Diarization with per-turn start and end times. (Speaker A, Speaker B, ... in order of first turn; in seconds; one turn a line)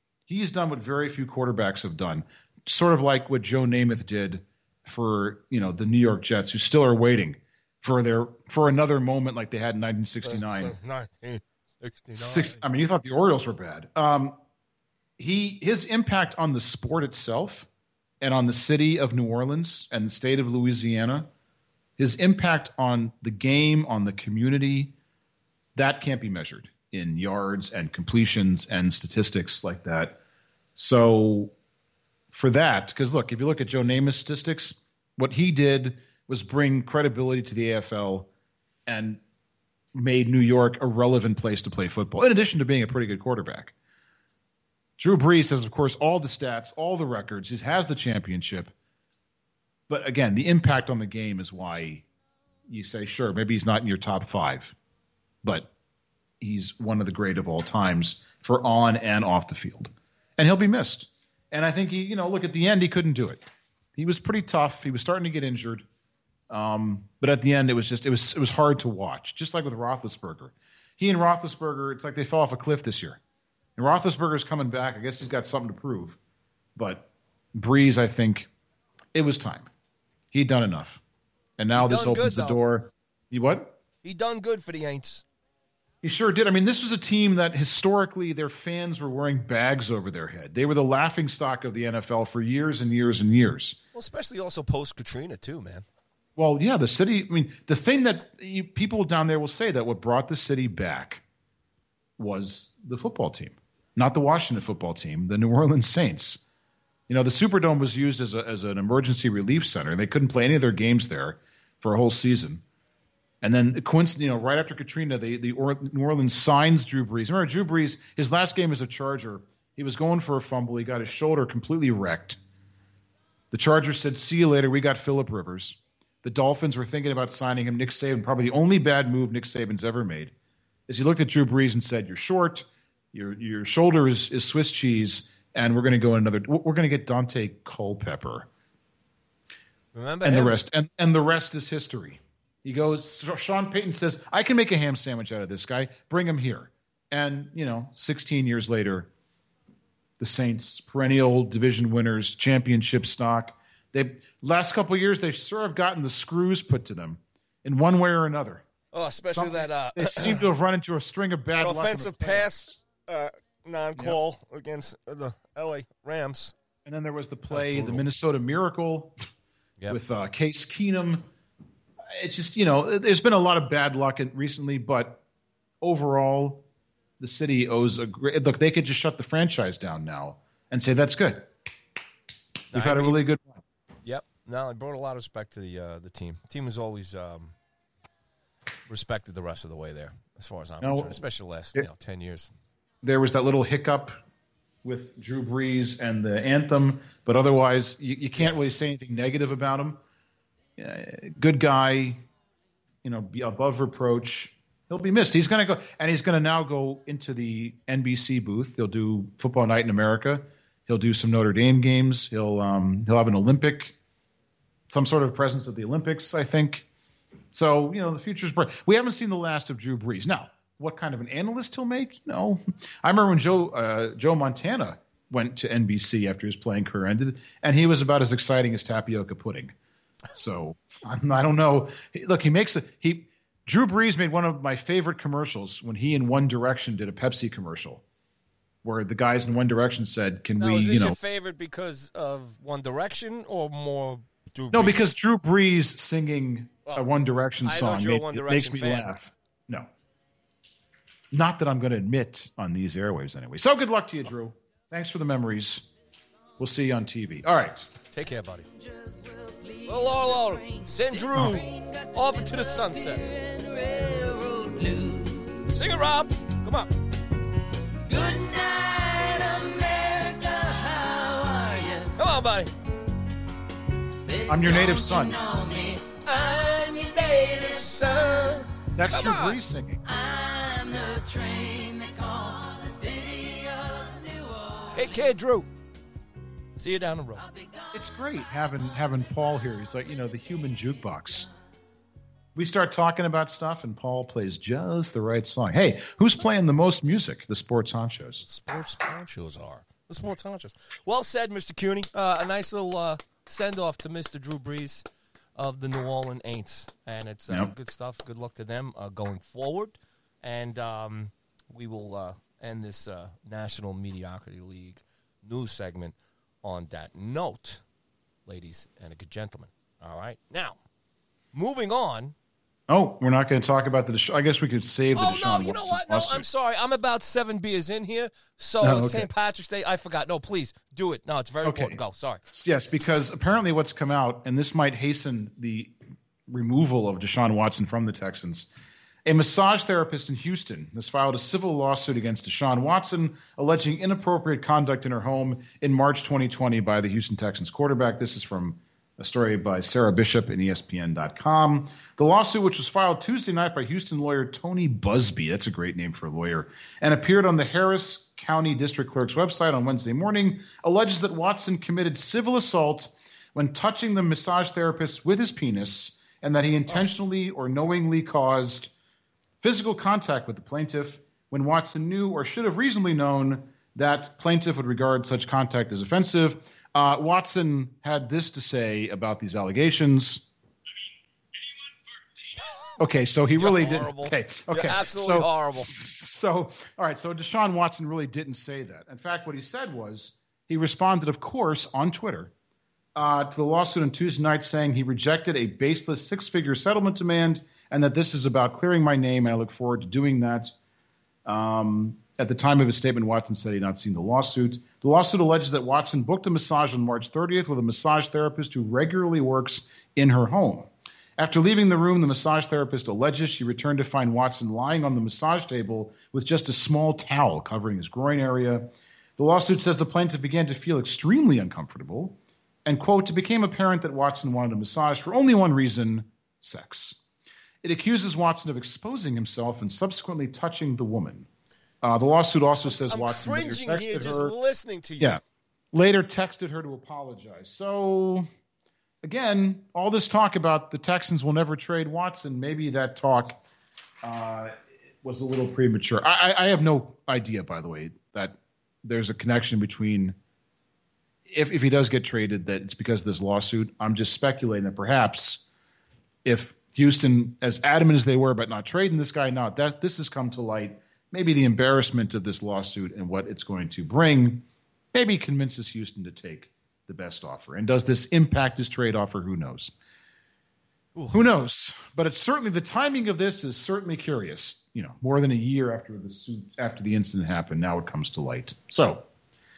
Speaker A: 0.3-10.8
Speaker B: 10.2-12.6
Speaker A: 12.1-14.4
Speaker A: 15.2-17.7
Speaker A: 18.2-21.3
Speaker A: 22.0-24.9
Speaker A: 25.7-30.2
Speaker A: 30.7-31.5
Speaker A: 32.3-38.3
Speaker A: 38.9-39.2
Speaker A: 39.9-43.7
Speaker A: 45.0-48.7
Speaker A: 49.9-52.0
Speaker A: 52.7-54.7
Speaker A: 55.4-55.7
Speaker A: 56.4-63.4
Speaker A: 64.0-65.8
Speaker A: 66.5-73.2
Speaker A: 73.8-76.2
Speaker A: 76.8-78.5
Speaker A: 79.1-79.7
Speaker A: 80.3-81.0
Speaker A: 81.6-83.8
Speaker B: 81.7-82.6
Speaker B: 84.0-85.2
Speaker A: 86.0-93.8
Speaker B: 93.9-95.8
Speaker A: 96.3-101.2
Speaker A: 102.2-106.4
Speaker A: 107.1-112.6
Speaker A: 113.4-122.4
Speaker A: 123.5-130.3
Speaker A: 130.9-138.5
Speaker B: 139.9-140.6
Speaker A: 140.2-149.1
Speaker A: 150.2-158.6
Speaker B: 158.9-160.5
Speaker A: 159.3-162.8
Speaker B: 161.5-166.5
Speaker A: 166.8-169.2
Speaker B: 167.5-168.1
Speaker A: 169.9-171.3
Speaker A: 172.1-175.2
Speaker A: 175.8-176.6
Speaker A: 177.2-181.5
Speaker B: 182.7-183.2
Speaker A: 182.7-183.6
Speaker B: 184.0-187.5
Speaker B: 188.9-192.5
Speaker A: 190.8-191.2
Speaker A: 193.0-194.2
Speaker A: 194.8-200.0
Speaker A: 200.8-202.2
Speaker A: 203.0-213.9
Speaker A: 214.9-216.9
Speaker A: 217.5-229.7
Speaker A: 230.3-238.0
Speaker A: 238.8-241.2
Speaker B: 240.6-245.1
Speaker A: 244.7-249.9
Speaker B: 247.6-249.1
Speaker A: 251.3-255.8
Speaker A: 256.6-257.9
Speaker B: 258.1-258.7
Speaker C: 258.7-265.9
Speaker B: 259.9-263.3
Speaker B: 265.7-266.9
Speaker C: 268.1-272.1
Speaker B: 272.2-272.7
Speaker C: 274.1-278.5
Speaker A: 274.5-275.4
Speaker B: 276.3-276.9
Speaker B: 277.6-279.6
Speaker A: 278.9-280.0
Speaker C: 280.0-285.3
Speaker B: 284.9-285.7
Speaker B: 286.8-287.5
Speaker C: 287.4-289.6
Speaker A: 287.9-291.5
Speaker C: 290.1-291.4
Speaker A: 292.5-298.4
Speaker B: 298.4-305.0
Speaker B: 305.6-317.8
Speaker A: 307.5-307.7
Speaker B: 318.4-320.8
Speaker B: 321.5-322.3
Speaker A: 322.9-326.5
Speaker B: 325.1-332.4
Speaker A: 328.8-329.3
Speaker A: 331.6-332.0
Speaker A: 332.5-335.9
Speaker A: 336.5-338.7
Speaker A: 339.2-368.9
Speaker A: 369.6-380.4
Speaker A: 383.0-392.5
Speaker B: 383.6-385.9
Speaker A: 393.1-400.7
Speaker A: 401.4-427.2
Speaker A: 427.8-431.5
Speaker A: 432.0-434.5
Speaker B: 433.0-435.4
Speaker A: 435.9-438.5
Speaker A: 439.2-443.6
Speaker A: 444.2-450.4
Speaker A: 451.5-455.6
Speaker A: 456.4-469.9
Speaker B: 471.1-471.5
Speaker A: 471.3-479.2